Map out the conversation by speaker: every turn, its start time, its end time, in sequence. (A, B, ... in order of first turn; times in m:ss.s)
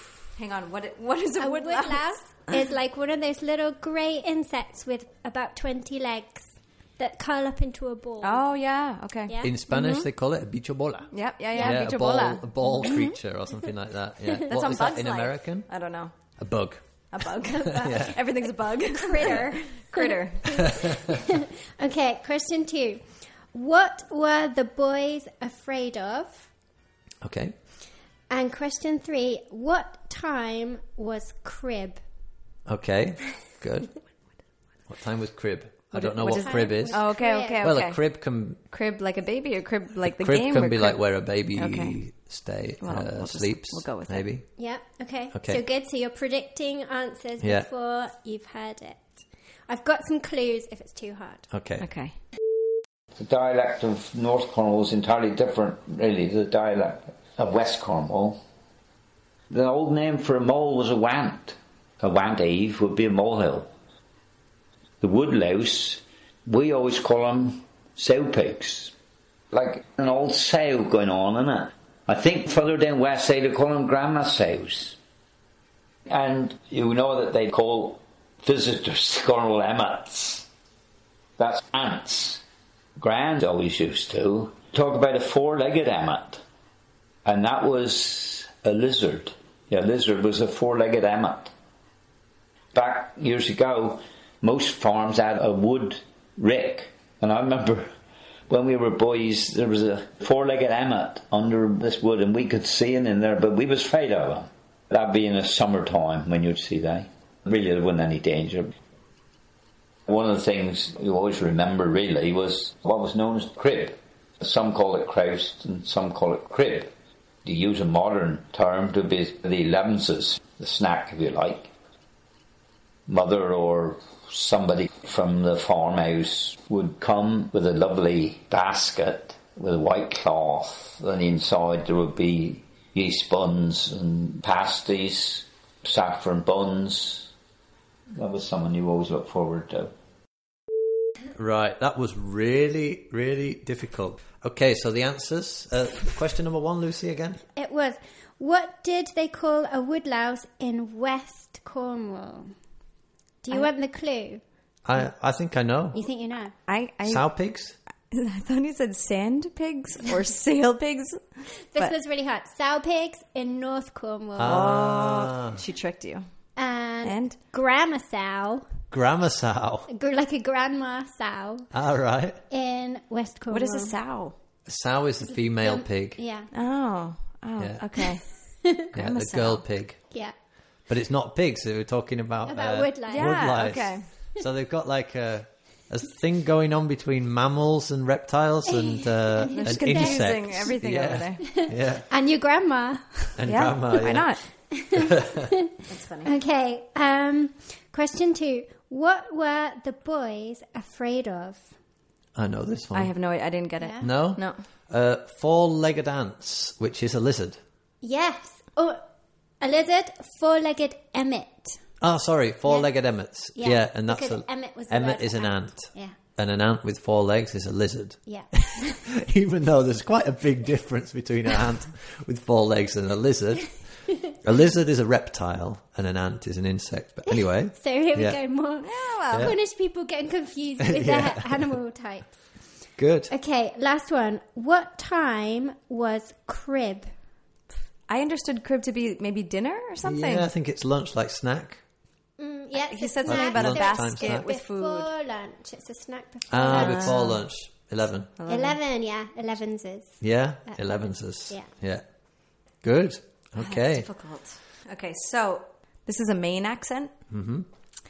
0:00.3-0:02.2 A
0:01.4-0:08.4 B
0:08.2-0:10.1 A
0:09.3-0:09.5 B
0:09.4-0:15.7 C
0:11.1-0:13.1 A
0:11.5-0:11.8 B
0:14.4-0:16.1 A
0:16.4-0:16.8 C
0:17.1-0:20.8 A
0:17.6-0:18.2 C
0:17.7-0:18.0 B
0:18.9-0:26.5 B
0:20.6-0:21.1 C
0:27.2-0:27.5 C
0:28.3-0:32.0 B
0:32.7-0:33.9 C
0:34.9-0:37.0 C
0:35.9-0:38.0 A
0:36.2-0:37.7 B
0:37.6-0:38.6 C
0:38.7-0:41.0 A
0:40.0-0:44.4 C
0:41.6-0:42.0 A
0:42.8-0:44.2 A
0:44.6-0:51.5 B
0:45.3-0:45.6 C
0:47.4-0:47.6 C
0:51.5-0:51.8 C
0:51.8-0:52.1 A
0:53.2-0:58.4 D
0:59.5-1:03.7 D
1:05.0-1:08.9 D
1:09.5-1:15.0 D
1:16.1-1:20.5 D
1:21.4-1:22.4 D
1:23.0-1:26.4 D
1:27.2-1:31.5 D
1:32.7-1:37.9 D
1:38.5-1:48.7 D
1:50.1-1:56.9 D
1:57.4-2:01.7 D
2:03.1-2:17.3 D
2:18.1-2:19.9 D
2:21.3-2:27.4 C
2:27.6-2:32.5 B
2:33.4-2:34.4 B
2:34.8-2:36.0 C
2:35.9-2:36.5 B
2:36.7-2:37.3 A
2:37.0-2:37.8 C
2:38.1-2:41.9 A
2:41.7-2:44.8 B
2:44.4-2:45.5 C
2:44.4-2:46.2 A
2:46.6-2:48.7 B
2:47.0-2:47.3 A
2:48.9-2:49.9 C
2:49.9-2:51.7 B
2:51.7-2:52.4 C
2:52.5-2:53.9 B
2:53.5-2:54.3 A
2:54.7-2:56.2 C
2:55.3-2:56.5 B
2:56.5-2:58.2 A
2:57.6-2:57.8 C
2:58.9-3:00.0 C
2:58.9-2:59.6 A
3:00.9-3:12.1 C
3:02.4-3:03.7 B
3:03.1-3:04.1 A
3:08.7-3:10.5 B
3:09.5-3:11.4 A
3:11.4-3:13.4 B
3:13.4-3:14.3 C
3:13.4-3:14.4 A
3:14.7-3:21.7 B
3:14.9-3:15.5 C
3:15.8-3:16.3 A
3:22.4-3:23.1 C
3:22.9-3:24.6 A
3:23.8-3:24.0 B
3:24.0-3:27.6 C
3:28.0-3:29.0 B
3:29.6-3:31.8 B
3:32.0-3:48.4 C
3:33.6-3:36.2 B
3:38.3-3:39.1 B
3:47.7-3:52.3 B
3:48.8-3:49.5 A
3:50.8-3:51.7 C
3:53.0-3:53.3 C
3:53.3-3:57.1 B
3:58.1-4:00.5 A
4:00.0-4:01.8 C
4:02.4-4:07.3 B
4:02.7-4:05.1 A
4:03.2-4:04.5 C
4:06.5-4:08.3 C
4:06.7-4:07.4 A
4:08.4-4:08.8 A
4:08.5-4:11.7 B
4:10.2-4:12.0 C
4:12.8-4:14.1 C
4:13.6-4:17.1 A
4:17.3-4:17.7 C